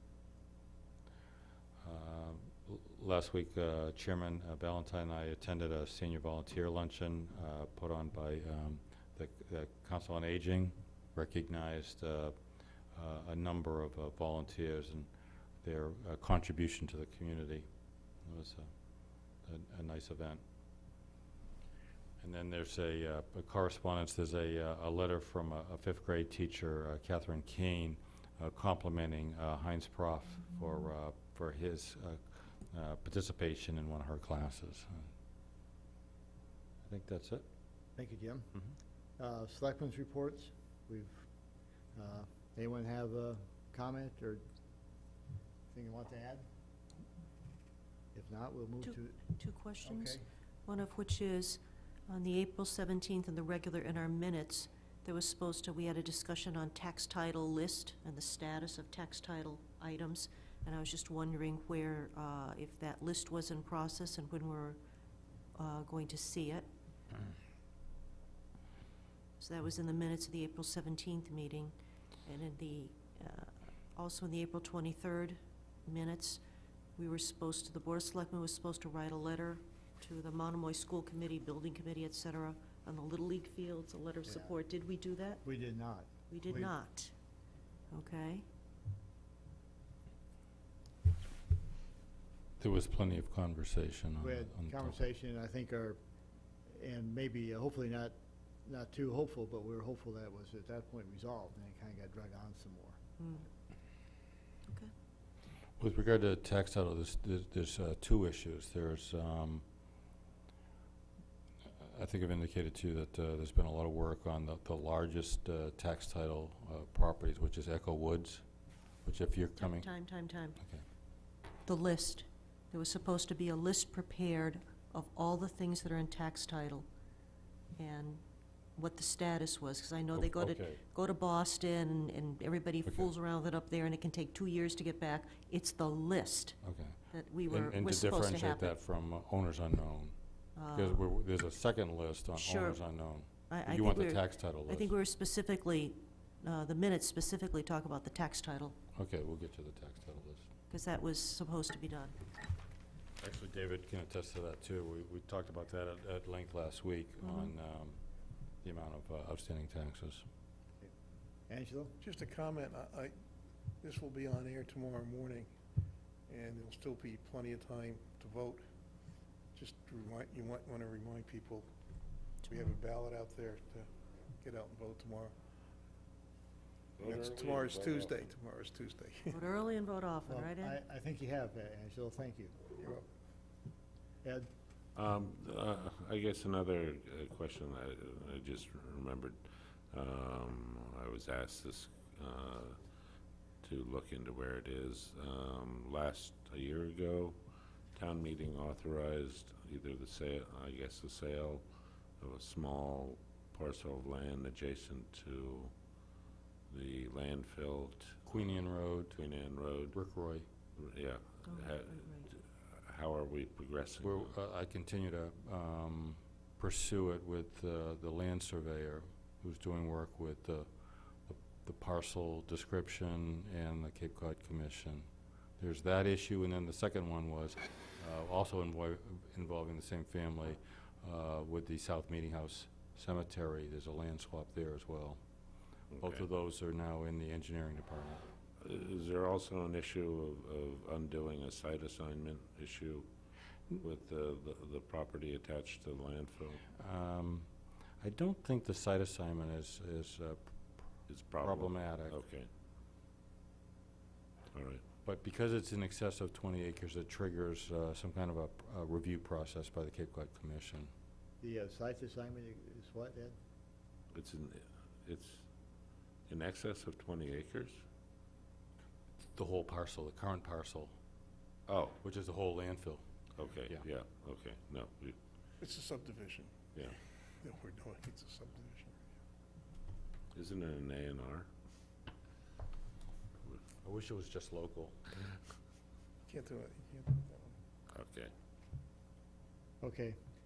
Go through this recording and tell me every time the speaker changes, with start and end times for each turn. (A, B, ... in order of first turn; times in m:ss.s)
0:01.8-0:12.3 A
0:12.9-0:15.1 A
0:15.6-0:17.7 A
0:18.2-0:18.7 A
0:19.4-0:20.4 A
0:22.2-0:35.1 A
0:36.8-0:37.4 A
0:38.0-0:38.5 B
0:39.2-0:41.3 B
0:41.9-0:44.4 B
0:45.7-0:46.4 B
0:48.1-0:50.2 B
0:48.8-1:04.8 C
1:05.5-1:06.6 C
1:09.4-1:11.7 C
1:12.2-1:16.4 C
1:17.0-1:25.4 C
1:24.2-1:24.5 B
1:25.4-1:26.7 B
1:26.3-1:27.1 C
1:27.9-1:28.4 C
1:32.6-1:35.0 A
1:34.2-1:36.0 B
1:36.7-1:43.0 B
1:43.2-1:43.4 C
1:44.7-1:44.9 C
1:45.8-1:49.6 A
1:51.8-1:58.4 A
1:59.0-1:59.9 A
1:59.6-2:00.6 C
2:01.6-2:06.8 C
2:07.8-2:08.2 C
2:08.8-2:18.7 C
2:10.1-2:10.8 A
2:12.8-2:13.1 A
2:16.6-2:20.1 A
2:20.6-2:21.0 C
2:20.7-2:24.9 A
2:22.4-2:22.8 C
2:23.4-2:28.8 C
2:28.9-2:30.5 A
2:30.7-2:32.2 C
2:33.2-2:38.0 A
2:37.2-2:37.5 C
2:38.6-2:40.2 A
2:41.5-2:42.0 B
2:42.0-2:43.1 D
2:43.8-2:45.5 D
2:46.3-2:48.6 D
2:49.5-2:51.7 D
2:52.5-2:55.3 D
2:57.0-2:58.3 E
2:57.0-2:59.4 D
2:59.3-3:00.8 C
3:00.2-3:03.0 B
3:04.2-3:04.5 B
3:04.9-3:12.8 E
3:13.6-3:17.4 E
3:17.9-3:21.6 E
3:22.2-3:25.7 E
3:26.7-3:28.3 E
3:28.2-3:29.2 A
3:29.1-3:29.9 E
3:29.9-3:30.5 A
3:30.8-3:34.3 E
3:31.4-3:32.3 C
3:34.0-3:40.7 A
3:41.2-3:55.2 A
3:55.9-3:56.2 E
3:56.0-3:58.2 A
3:58.6-4:03.1 E
4:03.8-4:06.6 E
4:06.7-4:07.5 A
4:08.0-4:10.6 A
4:11.1-4:12.5 E
4:11.4-4:12.2 A
4:14.5-4:14.8 E
4:15.0-4:20.9 A
4:21.4-4:23.4 B
4:24.1-4:25.4 E
4:26.3-4:27.8 E
4:29.3-4:30.9 A
4:31.7-4:32.0 E
4:32.0-4:33.0 A
4:33.3-4:35.2 E
4:35.6-4:36.6 D
4:37.4-4:39.0 D
4:40.3-4:41.5 E
4:43.8-4:45.0 A
4:46.3-4:47.6 D
4:47.9-4:48.3 E
4:49.8-4:50.2 B